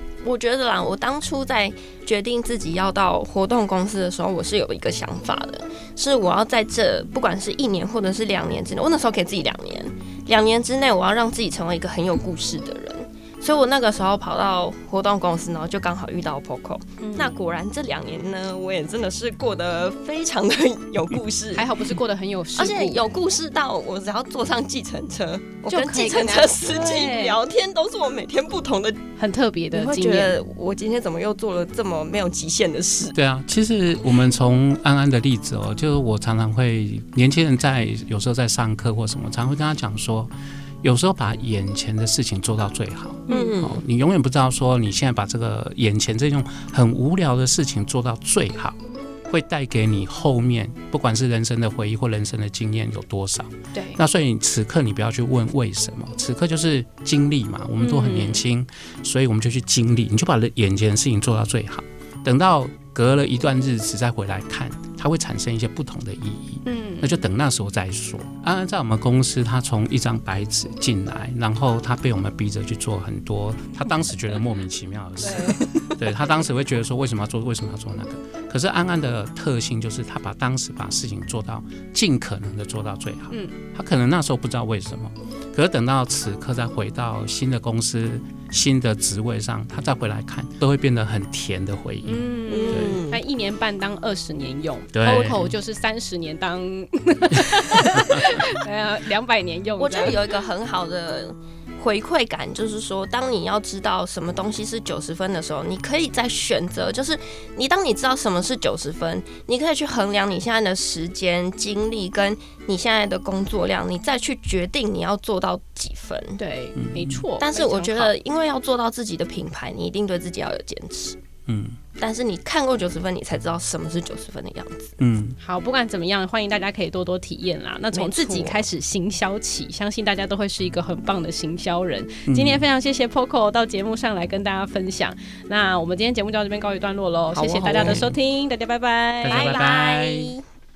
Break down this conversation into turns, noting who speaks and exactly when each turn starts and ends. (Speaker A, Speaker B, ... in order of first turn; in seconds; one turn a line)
Speaker A: 0.2-21.7
Speaker B: 17.0-17.4
Speaker B: 21.6-23.0
Speaker A: 22.6-29.0
Speaker B: 25.7-27.4
Speaker B: 29.2-30.4
Speaker A: 29.7-33.1
Speaker C: 33.1-93.0
Speaker B: 43.3-43.6
Speaker A: 43.3-43.8
Speaker B: 53.7-54.0
Speaker B: 57.8-58.4
Speaker B: 66.7-67.2
Speaker B: 75.2-75.7
Speaker A: 75.4-76.0
Speaker B: 92.0-100.3
Speaker A: 92.5-93.2
Speaker C: 94.9-95.5
Speaker C: 97.9-98.3
Speaker A: 99.8-116.4
Speaker B: 116.4-118.1
Speaker C: 116.8-117.2
Speaker A: 117.4-121.2
Speaker C: 121.5-121.8
Speaker A: 122.0-125.0
Speaker C: 125.0-125.4
Speaker B: 125.4-139.6
Speaker A: 127.9-128.6
Speaker C: 132.3-132.7
Speaker A: 137.3-138.1
Speaker C: 137.7-138.1
Speaker C: 139.2-140.3
Speaker A: 139.2-140.4